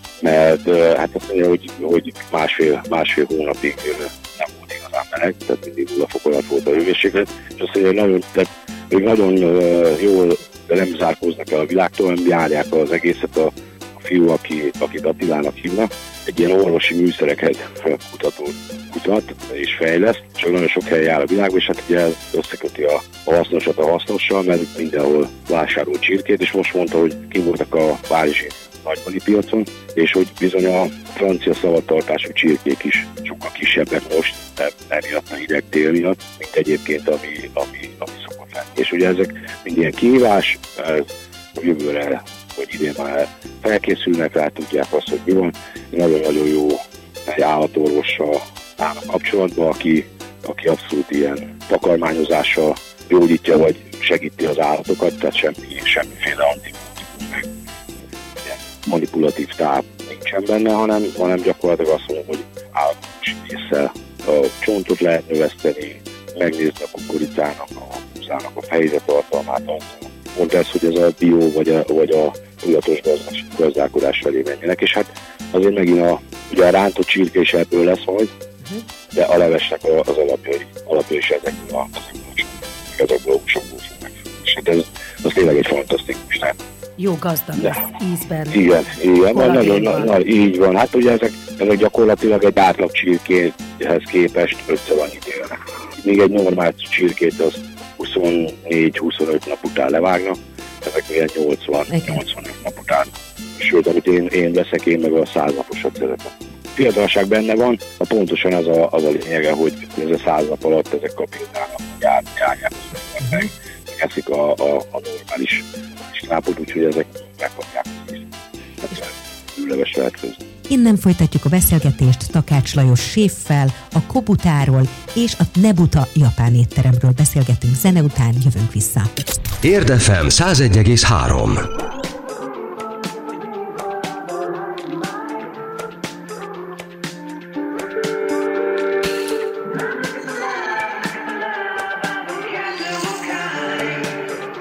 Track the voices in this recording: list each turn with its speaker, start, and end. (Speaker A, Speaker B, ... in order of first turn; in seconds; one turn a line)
Speaker A: 0.2-57.5
Speaker A: 58.4-78.3
Speaker A: 79.1-86.6
Speaker B: 87.0-88.7
Speaker A: 87.6-87.9
Speaker A: 88.5-118.3
Speaker B: 89.3-90.1
Speaker B: 101.9-102.2
Speaker A: 118.8-120.4
Speaker B: 120.7-129.1
Speaker C: 129.6-131.6